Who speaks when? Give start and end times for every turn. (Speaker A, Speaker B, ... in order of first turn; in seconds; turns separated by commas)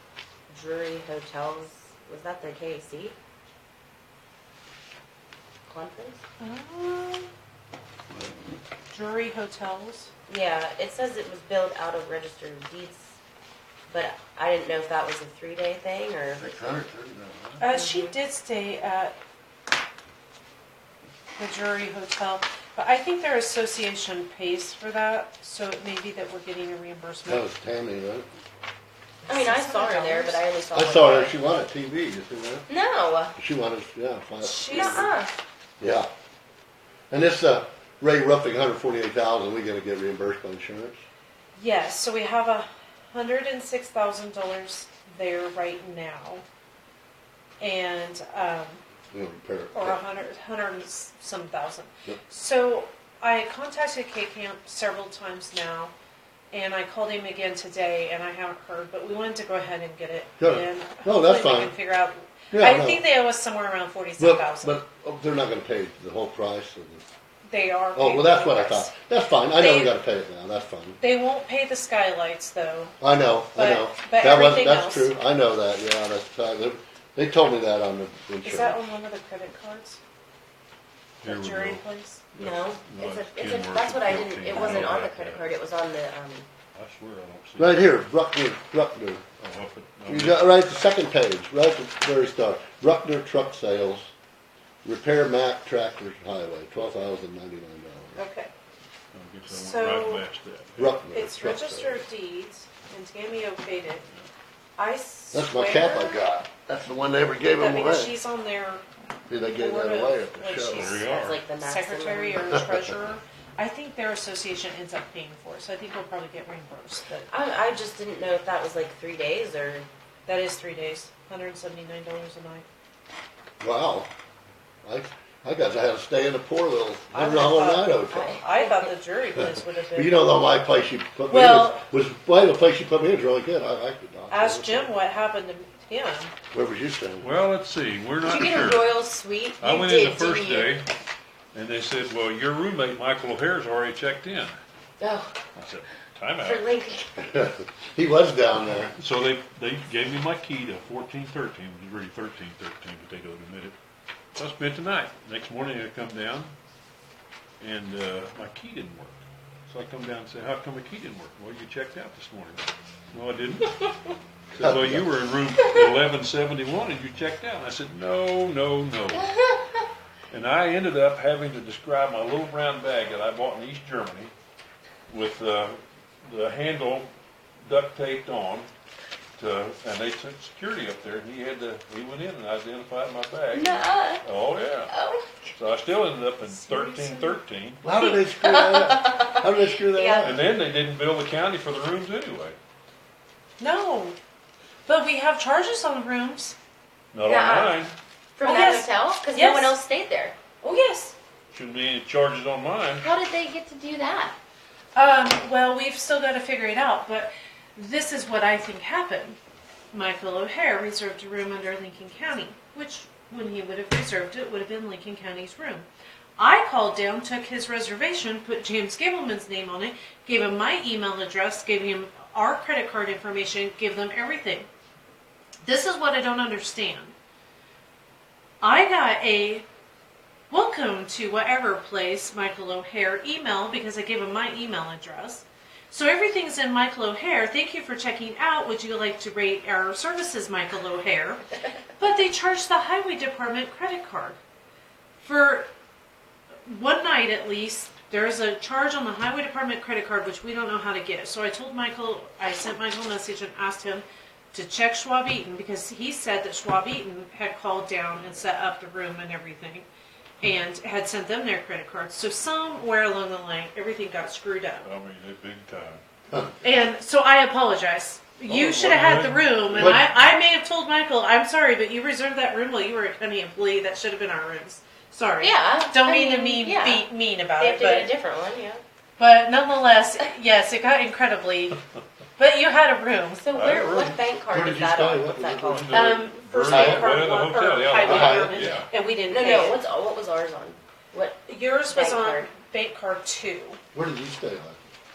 Speaker A: 0.5-3.2, Speaker A: 5.7-6.2, Speaker B: 6.4-7.3, Speaker C: 8.1-8.4, Speaker B: 8.9-10.1, Speaker A: 10.3-13.2, Speaker A: 13.9-16.5, Speaker C: 16.4-17.6, Speaker B: 17.6-19.1, Speaker A: 17.7-18.1, Speaker B: 21.4-27.5, Speaker C: 27.2-28.3, Speaker B: 29.3-30.4, Speaker A: 29.3-31.4, Speaker C: 30.7-32.7, Speaker A: 32.7-33.4, Speaker C: 33.4-35.1, Speaker B: 34.4-35.2, Speaker A: 34.7-35.3, Speaker C: 35.8-36.1, Speaker C: 37.1-41.0, Speaker B: 41.6-46.4, Speaker B: 47.6-48.8, Speaker C: 49.1-50.0, Speaker B: 49.7-55.9, Speaker B: 56.5-64.8, Speaker C: 60.4-61.8, Speaker C: 62.5-63.0, Speaker C: 64.2-67.0, Speaker B: 67.5-68.9, Speaker C: 68.0-71.0, Speaker B: 69.6-70.0, Speaker B: 71.0-73.0, Speaker C: 73.0-78.8, Speaker B: 73.5-75.1, Speaker B: 78.4-80.0, Speaker D: 81.2-81.8, Speaker B: 81.2-82.2, Speaker D: 82.3-85.5, Speaker A: 82.3-86.5, Speaker B: 84.5-84.9, Speaker D: 86.7-87.9, Speaker C: 87.6-89.4, Speaker D: 89.4-90.5, Speaker C: 90.1-94.1, Speaker C: 94.8-98.2, Speaker B: 98.2-98.5, Speaker D: 99.1-101.0, Speaker B: 99.5-100.2, Speaker C: 100.8-102.0, Speaker B: 101.1-104.1, Speaker B: 104.8-106.2, Speaker C: 105.3-108.2, Speaker B: 107.6-108.8, Speaker C: 109.3-111.0, Speaker B: 109.5-117.3, Speaker D: 110.7-111.4, Speaker A: 111.0-112.6, Speaker A: 117.3-119.9, Speaker B: 120.3-122.7, Speaker C: 123.6-124.1, Speaker C: 124.8-128.4, Speaker B: 127.1-130.3, Speaker A: 128.1-128.9, Speaker C: 129.3-134.9, Speaker B: 131.3-131.8, Speaker B: 134.3-136.3, Speaker C: 136.5-137.3, Speaker D: 137.2-139.0, Speaker A: 138.2-140.8, Speaker D: 139.6-140.9, Speaker D: 141.5-144.6, Speaker A: 145.0-145.4, Speaker D: 145.6-146.7, Speaker A: 146.4-147.2, Speaker C: 147.2-148.9, Speaker D: 148.6-153.8, Speaker D: 154.3-156.5, Speaker D: 157.6-163.8, Speaker D: 164.5-169.3, Speaker C: 164.6-165.1, Speaker A: 169.1-169.5, Speaker D: 170.3-174.3, Speaker D: 175.1-178.7, Speaker D: 179.4-184.9, Speaker A: 183.5-184.2, Speaker A: 184.9-185.5, Speaker D: 185.6-187.8, Speaker B: 186.5-187.4, Speaker C: 187.8-190.4, Speaker A: 188.0-190.3, Speaker D: 190.2-192.6, Speaker B: 193.6-194.2, Speaker B: 194.9-196.6, Speaker D: 197.1-197.9, Speaker A: 197.3-200.4, Speaker B: 198.4-199.8, Speaker B: 200.6-201.2, Speaker D: 201.5-203.1, Speaker A: 203.0-204.4, Speaker B: 204.9-209.4, Speaker B: 209.9-215.9, Speaker B: 216.4-224.7, Speaker B: 225.6-227.2, Speaker B: 228.6-229.7, Speaker B: 230.5-241.4, Speaker B: 242.0-244.4, Speaker B: 245.2-245.7, Speaker B: 246.7-259.9, Speaker B: 260.4-264.9, Speaker D: 264.8-266.0, Speaker B: 266.6-278.1, Speaker D: 268.5-270.1, Speaker C: 269.8-270.0, Speaker A: 275.4-278.8, Speaker B: 279.2-281.8, Speaker B: 282.4-283.5, Speaker A: 283.4-286.0, Speaker D: 283.5-284.2, Speaker C: 284.5-285.9, Speaker D: 285.7-288.9, Speaker B: 285.9-289.8, Speaker C: 286.6-287.2, Speaker C: 288.0-288.8, Speaker A: 289.3-292.5, Speaker B: 291.5-293.8, Speaker C: 293.9-294.8